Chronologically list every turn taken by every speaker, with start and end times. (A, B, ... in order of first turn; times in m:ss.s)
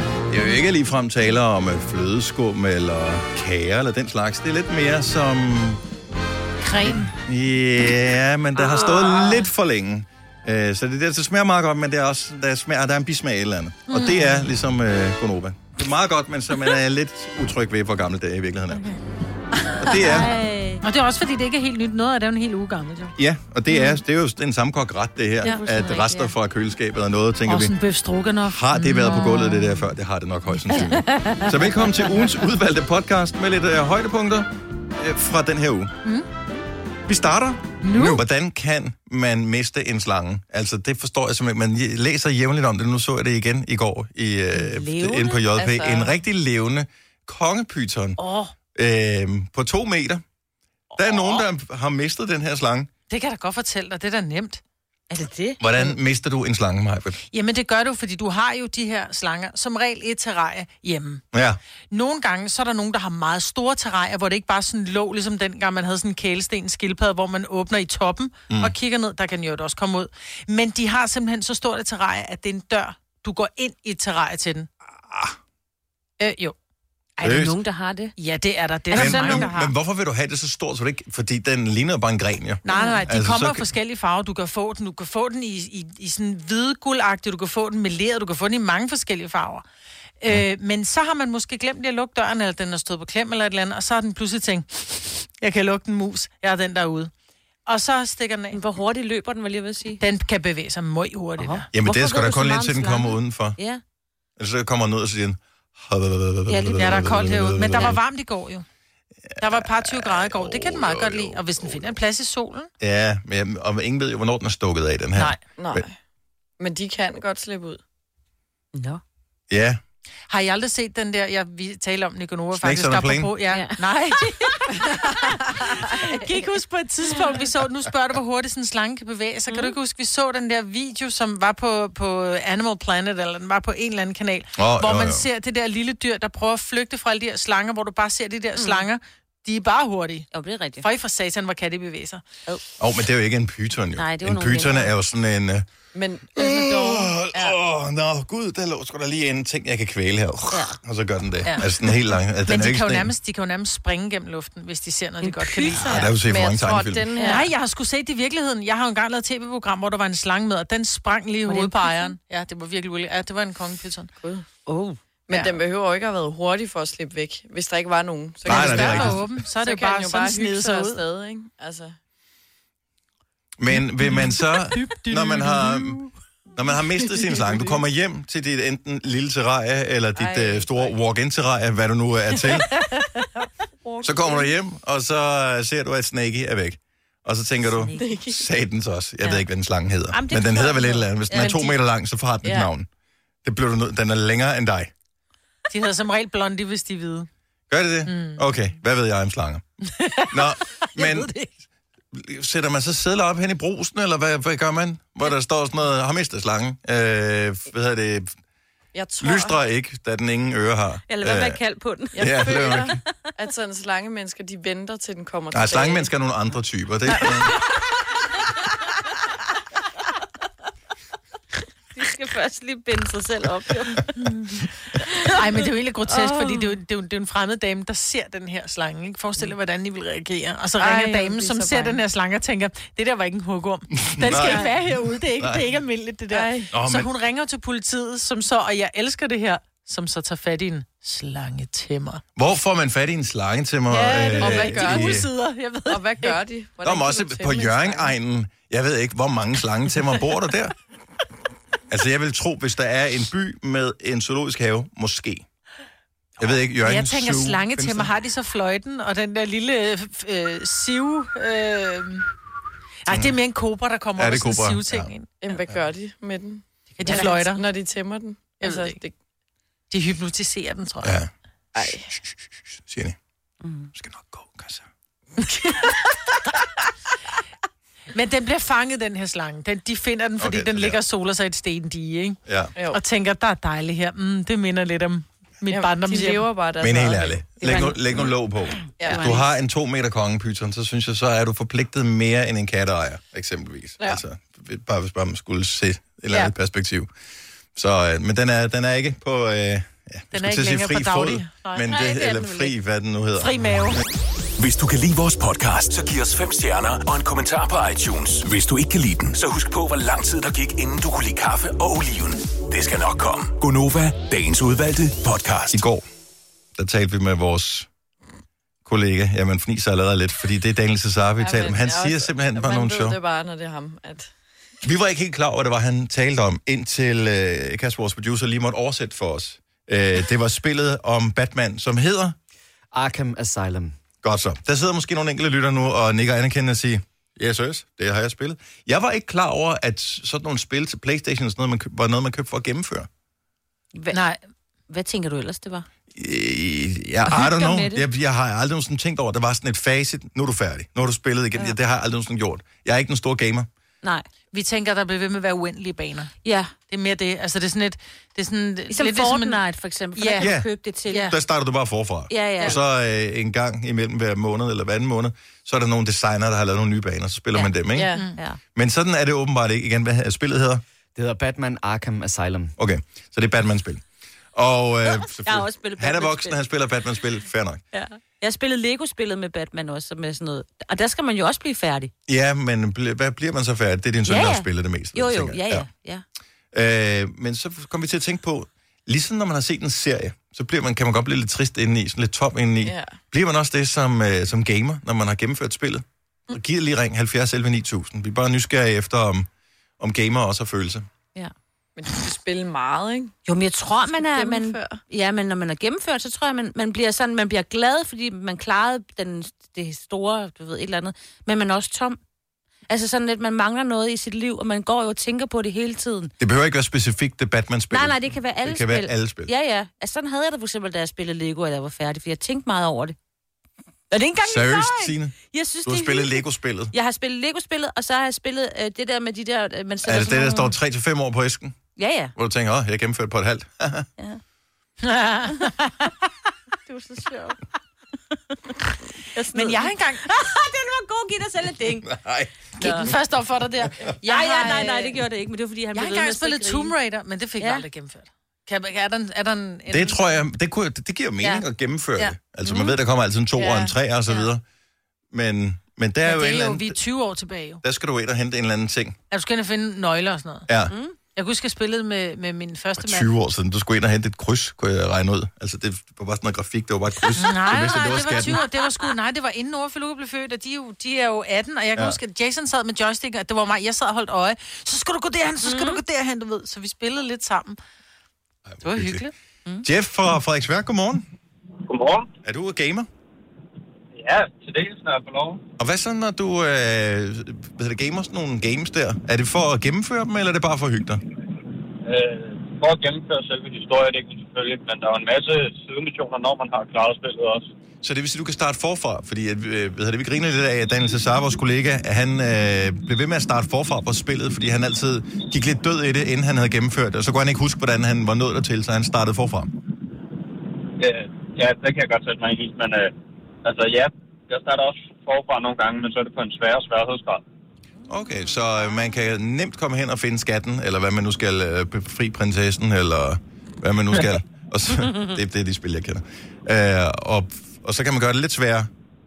0:00.3-0:05.8 A
0:06.6-0:07.1 B
0:07.0-0:18.9 A
0:08.8-0:09.1 B
0:13.9-0:14.5 B
0:19.6-0:20.2 B
0:19.8-0:20.4 A
0:19.9-0:20.8 C
0:20.8-0:23.2 B
0:23.2-0:27.7 A
0:25.4-0:26.3 C
0:27.5-0:29.5 B
0:28.4-0:35.9 A
0:31.1-0:31.5 B
0:37.1-0:48.2 A
0:37.8-0:38.2 B
0:44.5-0:45.4 C
0:45.5-0:46.2 D
0:48.2-0:48.5 C
0:48.8-0:50.2 A
0:51.0-0:52.9 A
0:53.1-0:54.6 B
0:55.1-0:56.0 C
0:55.6-0:57.2 A
0:57.3-1:01.2 B
1:01.3-1:01.6 A
1:01.9-1:14.7 B
1:15.0-1:15.4 A
1:16.2-1:16.6 B
1:17.2-1:18.1 C
1:17.2-1:17.6 A
1:18.2-1:19.7 B
1:18.9-1:19.5 C
1:19.0-1:23.7 A
1:22.6-1:29.6 B
1:22.7-1:23.0 C
1:30.2-1:37.1 B
1:37.7-1:38.6 B
1:38.5-1:40.0 C
1:40.0-1:41.7 B
1:41.4-1:43.8 C
1:41.7-1:43.6 A
1:44.4-1:48.0 A
1:46.5-1:48.7 B
1:49.3-1:52.0 A
1:49.4-1:52.7 B
1:52.8-1:55.8 A
1:55.6-1:56.0 D
1:56.6-1:57.8 D
1:58.7-1:59.0 C
1:59.5-1:59.8 A
2:00.3-2:22.2 B
2:02.6-2:03.3 A
2:03.5-2:03.8 C
2:09.5-2:09.8 C
2:14.6-2:15.3 A
2:18.6-2:18.8 C
2:20.3-2:20.8 C
2:22.8-2:25.7 A
2:24.0-2:24.9 C
2:25.9-2:27.6 D
2:26.4-2:33.1 A
2:30.5-2:30.8 C
2:32.4-2:36.0 B
2:35.2-2:36.2 C
2:35.7-2:37.1 A
2:36.2-2:37.5 D
2:37.2-2:37.5 C
2:37.2-2:44.1 B
2:41.5-2:42.2 C
2:44.7-2:45.0 C
2:45.3-2:52.0 D
2:48.4-2:49.3 A
2:48.5-2:51.0 B
2:53.6-2:56.0 A
2:53.7-2:56.1 B
2:56.6-3:02.8 A
3:00.2-3:01.0 D
3:02.7-3:03.2 B
3:03.8-3:04.5 D
3:04.0-3:12.9 A
3:07.7-3:08.2 C
3:08.0-3:08.4 D
3:10.1-3:11.8 C
3:12.4-3:12.7 D
3:13.4-3:14.9 A
3:15.7-3:17.3 B
3:17.7-3:19.6 A
3:18.1-3:18.5 B
3:19.9-3:21.5 B
3:20.3-3:21.3 A
3:22.1-3:28.4 A
3:28.9-3:29.6 D
3:29.2-3:31.6 A
3:31.1-3:32.9 C
3:32.2-3:36.1 D
3:32.2-3:33.0 A
3:35.5-3:37.6 A
3:37.1-3:37.6 D
3:41.9-3:44.3 C
3:44.2-3:44.6 B
3:45.3-4:02.2 B
3:46.1-3:46.8 C
3:50.8-3:52.0 D
3:54.0-3:55.6 A
3:56.3-3:56.7 D
3:56.7-3:57.1 A
4:02.4-4:05.3 A
4:03.9-4:06.4 B
4:04.4-4:05.3 D
4:05.9-4:08.2 D
4:06.8-4:10.8 A
4:11.9-4:15.5 A
4:16.4-4:18.1 A
4:16.4-4:22.3 B
4:23.0-4:25.3 B
4:23.1-4:23.4 A
4:24.2-4:25.1 A
4:25.4-4:29.1 D
4:27.0-4:27.6 B
4:27.1-4:27.3 C
4:28.6-4:29.0 B
4:29.9-4:31.2 B
4:31.0-4:31.3 A
4:31.8-4:32.1 D
4:32.3-4:33.2 A
4:33.6-4:33.9 C
4:33.9-4:34.9 A
4:35.6-4:35.9 B
4:38.1-4:42.4 B
4:40.4-4:41.0 A
4:42.5-4:42.7 A
4:42.8-4:43.0 D
4:42.9-4:46.5 B
4:45.7-4:47.7 D
4:46.8-4:57.1 A
4:47.6-4:48.3 C
4:48.8-4:49.4 C
4:49.0-4:49.4 D
4:57.8-5:04.0 A
5:00.3-5:02.6 B
5:01.9-5:02.5 C
5:03.4-5:04.0 B
5:04.6-5:15.8 E
5:15.7-5:16.1 A
5:16.8-5:17.9 A
5:18.8-5:23.2 A
5:21.4-5:24.3 D
5:24.8-5:32.4 A
5:32.9-5:34.0 F
5:34.2-5:43.1 A
5:44.1-5:44.4 B
5:44.9-5:45.9 C
5:46.1-5:53.7 A
5:47.3-5:48.0 C
5:54.5-5:56.3 B
5:56.4-5:56.7 C
5:56.9-5:59.6 B
5:58.9-6:01.3 C
6:00.2-6:00.5 B
6:00.4-6:00.7 A
6:01.1-6:01.4 B
6:01.3-6:08.1 A
6:02.3-6:02.8 C
6:07.9-6:08.3 D
6:08.2-6:08.4 B
6:08.8-6:10.8 A
6:11.2-6:12.8 F
6:12.8-6:14.0 A
6:14.5-6:17.8 A
6:15.4-6:16.6 C
6:17.9-6:22.1 C
6:22.3-6:25.9 A
6:24.3-6:26.2 C
6:26.7-6:39.5 A
6:32.8-6:33.2 D
6:40.0-6:41.1 A
6:42.0-6:43.4 D
6:43.5-6:52.2 C
6:44.1-6:45.0 D
6:52.9-6:56.3 C
6:56.4-6:59.5 A
6:57.9-7:03.2 C
7:04.1-7:10.7 C
7:04.4-7:06.9 A
7:10.0-7:11.8 A
7:12.0-7:12.3 C
7:12.4-7:14.1 A
7:15.0-7:16.1 B
7:16.9-7:17.6 C
7:19.3-7:22.1 C
7:19.5-7:20.2 B
7:22.0-7:22.5 A
7:22.8-7:25.2 B
7:22.8-7:23.1 C
7:24.2-7:26.9 C
7:25.9-7:30.4 B
7:27.6-7:27.8 C
7:29.9-7:34.6 A
7:32.6-7:33.0 C
7:33.6-7:33.9 D
7:35.3-7:37.0 A
7:36.2-7:37.8 B
7:37.8-7:39.2 A
7:39.3-7:40.7 B
7:40.7-7:40.9 A
7:40.9-7:41.2 C
7:41.4-7:43.3 B
7:43.0-7:48.6 A
7:47.4-7:57.8 B
7:55.6-7:56.0 C
7:58.7-7:59.2 A
7:58.8-7:59.3 B
7:59.8-8:01.2 A
8:01.9-8:02.3 G
8:02.4-8:03.1 A
8:04.1-8:05.6 G
8:05.8-8:11.2 A
8:12.0-8:17.7 G
8:18.0-8:29.7 A
8:31.0-8:33.1 G
8:33.6-8:37.4 G
8:38.1-8:48.9 A